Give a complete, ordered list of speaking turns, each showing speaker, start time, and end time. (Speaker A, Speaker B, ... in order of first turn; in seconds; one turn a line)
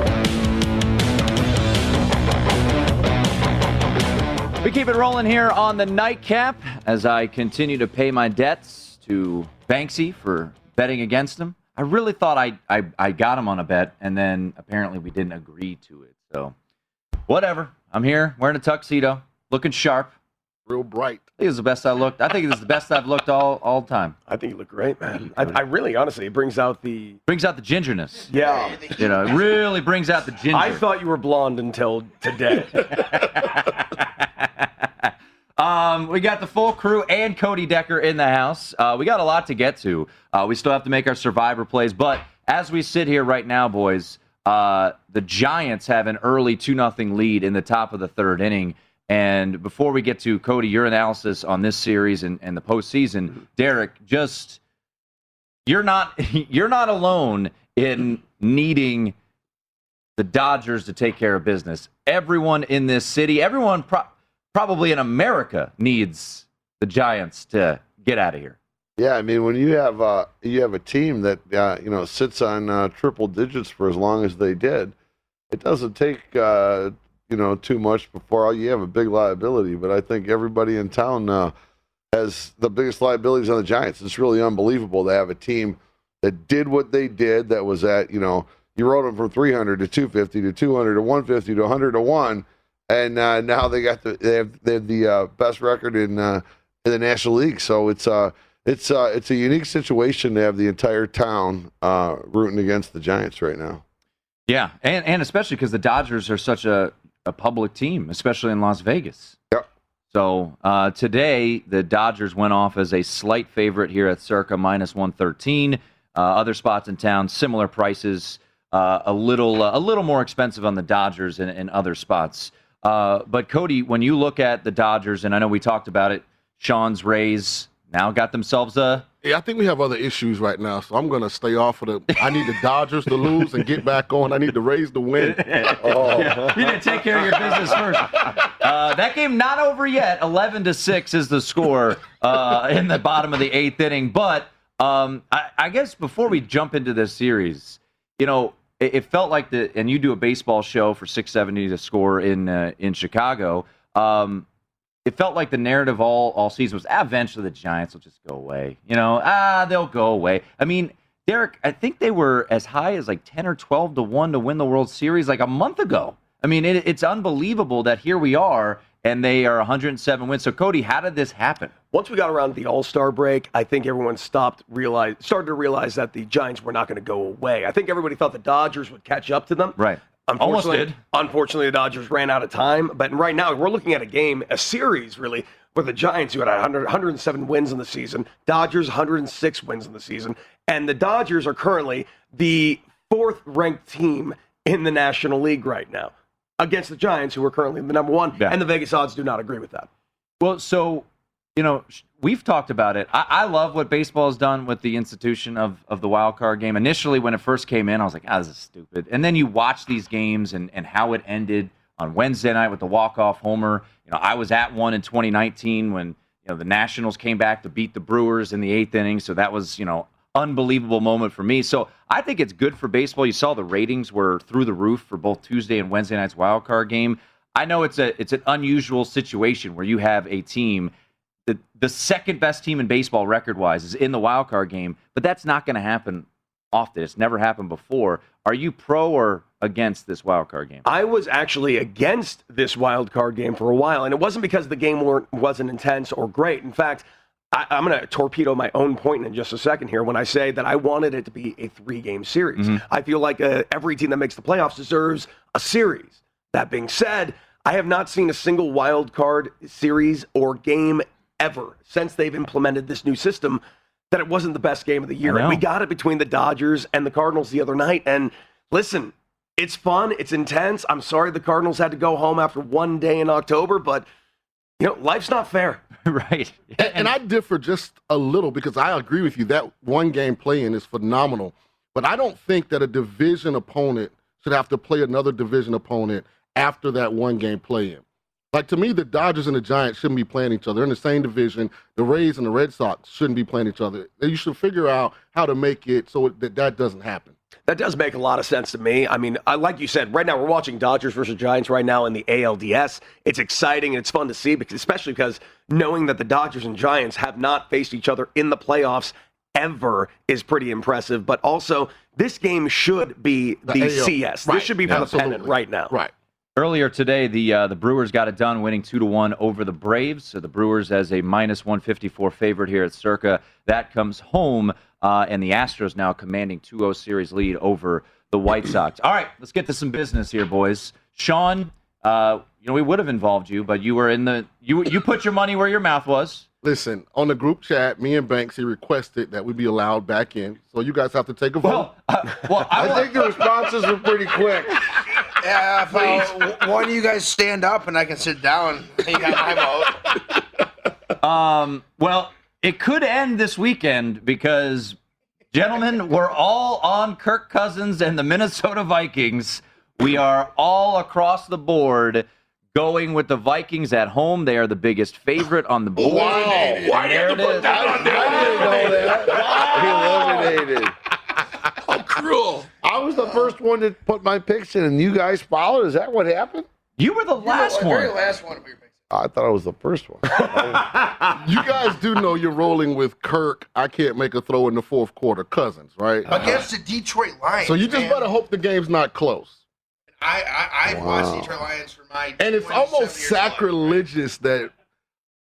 Speaker A: 4.6-16.5
Speaker A: 17.3-20.1
Speaker B: 20.7-21.2
Speaker A: 21.4-24.1
Speaker C: 24.3-27.2
Speaker A: 27.3-28.3
Speaker C: 28.3-28.9
Speaker D: 28.4-29.3
Speaker A: 29.0-30.8
Speaker C: 30.5-33.1
Speaker A: 32.7-54.6
Speaker A: 55.6-59.1
Speaker A: 60.2-68.6
Speaker E: 69.0-74.9
Speaker E: 75.5-81.5
Speaker E: 82.1-103.8
Speaker A: 104.5-109.4
Speaker A: 110.1-129.0
Speaker B: 129.2-136.0
Speaker A: 135.2-154.4
Speaker E: 135.8-136.7
Speaker A: 155.1-171.7
Speaker C: 171.9-199.9
Speaker A: 179.8-181.0
Speaker A: 200.4-230.9
Speaker A: 231.5-240.8
Speaker C: 240.8-274.1
Speaker A: 252.6-252.8
Speaker A: 265.2-265.6
Speaker C: 274.8-275.8
Speaker A: 276.0-277.1
Speaker B: 276.8-297.3
Speaker C: 297.7-315.9
Speaker B: 313.7-316.1
Speaker A: 316.6-336.4
Speaker B: 336.6-341.9
Speaker A: 341.6-343.3
Speaker E: 342.7-344.8
Speaker B: 342.8-343.2
Speaker D: 345.4-350.2
Speaker B: 345.9-346.5
Speaker A: 351.2-354.9
Speaker A: 355.5-368.7
Speaker E: 366.0-366.9
Speaker B: 366.0-366.8
Speaker F: 366.1-370.5
Speaker E: 367.6-370.9
Speaker B: 368.3-369.3
Speaker F: 371.9-372.7
Speaker E: 372.8-376.7
Speaker A: 377.0-378.1
Speaker D: 377.4-378.9
Speaker E: 379.1-381.0
Speaker B: 381.3-386.7
Speaker D: 386.3-388.3
Speaker B: 387.6-389.6
Speaker D: 390.2-394.0
Speaker E: 390.9-391.6
Speaker B: 392.4-394.7